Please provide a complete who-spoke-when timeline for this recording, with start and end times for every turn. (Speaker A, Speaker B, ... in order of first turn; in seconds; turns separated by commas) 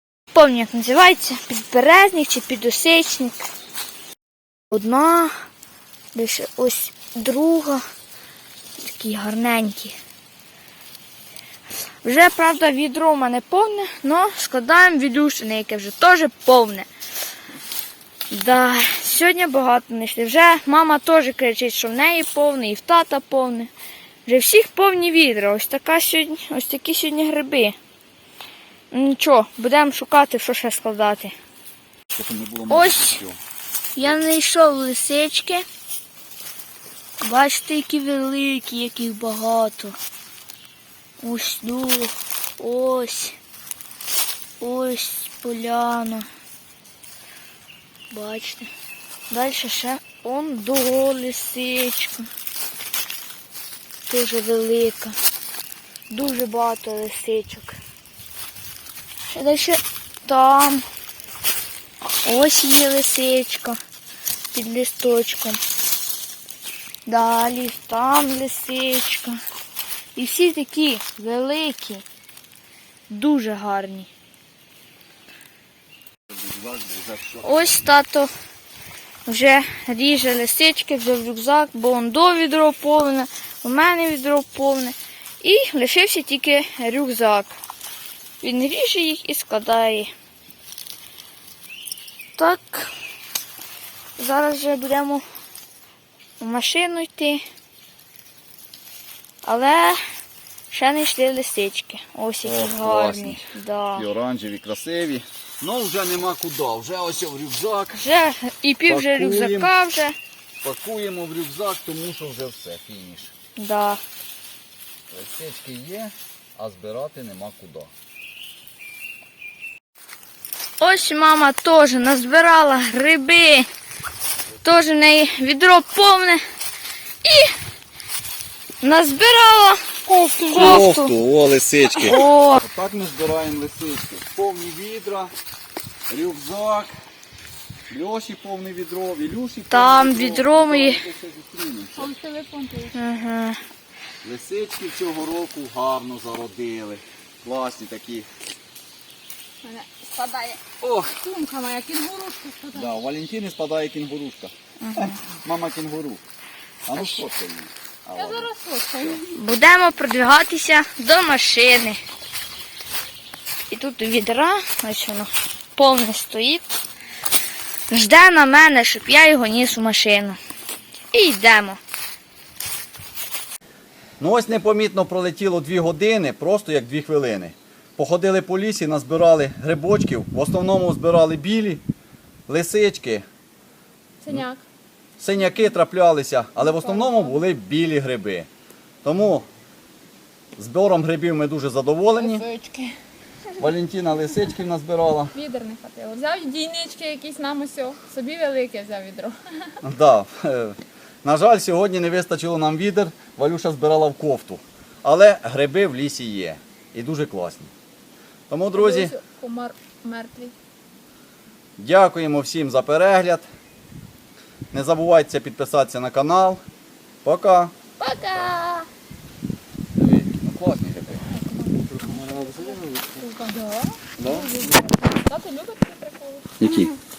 Speaker A: 0.3-3.5, Speaker A: 4.7-5.3, Speaker A: 6.1-7.8, Speaker A: 8.8-9.9, Speaker A: 12.0-16.9, Speaker A: 18.3-23.7, Speaker A: 24.2-27.8, Speaker A: 28.9-31.3, Speaker B: 32.1-33.4, Speaker A: 32.7-33.2, Speaker A: 34.0-35.6, Speaker A: 37.2-40.0, Speaker A: 41.2-43.4, Speaker A: 44.6-46.3, Speaker A: 48.1-48.7, Speaker A: 49.3-52.3, Speaker A: 54.1-55.2, Speaker A: 56.1-57.8, Speaker A: 59.3-60.8, Speaker A: 62.2-63.8, Speaker A: 64.5-65.6, Speaker A: 67.0-69.4, Speaker A: 70.2-72.0, Speaker A: 73.1-74.1, Speaker B: 76.4-77.8, Speaker A: 77.4-78.3, Speaker A: 79.2-87.6, Speaker A: 88.4-90.1, Speaker A: 92.3-92.9, Speaker A: 94.2-95.2, Speaker A: 96.4-97.4, Speaker A: 99.4-100.0, Speaker A: 100.7-104.1, Speaker B: 102.4-108.0, Speaker A: 108.0-110.2, Speaker B: 108.9-109.7, Speaker B: 110.6-113.3, Speaker A: 113.6-114.0, Speaker B: 115.1-117.9, Speaker A: 120.8-123.7, Speaker A: 124.6-126.4, Speaker A: 127.2-127.5, Speaker A: 128.8-129.8, Speaker C: 130.1-130.9, Speaker A: 130.4-131.1, Speaker B: 130.5-135.3, Speaker A: 132.0-132.6, Speaker B: 136.1-136.9, Speaker B: 137.9-142.1, Speaker A: 139.7-141.0, Speaker C: 141.9-143.0, Speaker A: 142.9-143.6, Speaker B: 144.2-148.3, Speaker C: 149.6-152.9, Speaker B: 150.8-151.1, Speaker B: 152.7-156.2, Speaker A: 154.8-155.2, Speaker B: 156.9-159.2, Speaker C: 158.1-159.4, Speaker A: 159.3-162.0, Speaker A: 163.7-166.7, Speaker A: 167.9-170.4, Speaker A: 171.1-171.8, Speaker B: 174.2-181.8, Speaker B: 182.5-183.2, Speaker C: 184.2-184.6, Speaker B: 185.2-188.5, Speaker C: 186.6-187.4, Speaker B: 189.0-189.5, Speaker B: 190.6-192.4, Speaker C: 192.2-192.9, Speaker B: 193.6-195.3, Speaker C: 195.3-199.7, Speaker B: 199.8-207.7, Speaker B: 208.5-209.2, Speaker C: 208.7-210.5, Speaker B: 211.8-213.5, Speaker B: 214.7-216.6, Speaker B: 217.2-217.7, Speaker C: 218.0-218.9, Speaker B: 219.9-221.3, Speaker C: 221.3-227.0, Speaker B: 224.2-224.5, Speaker B: 226.6-226.9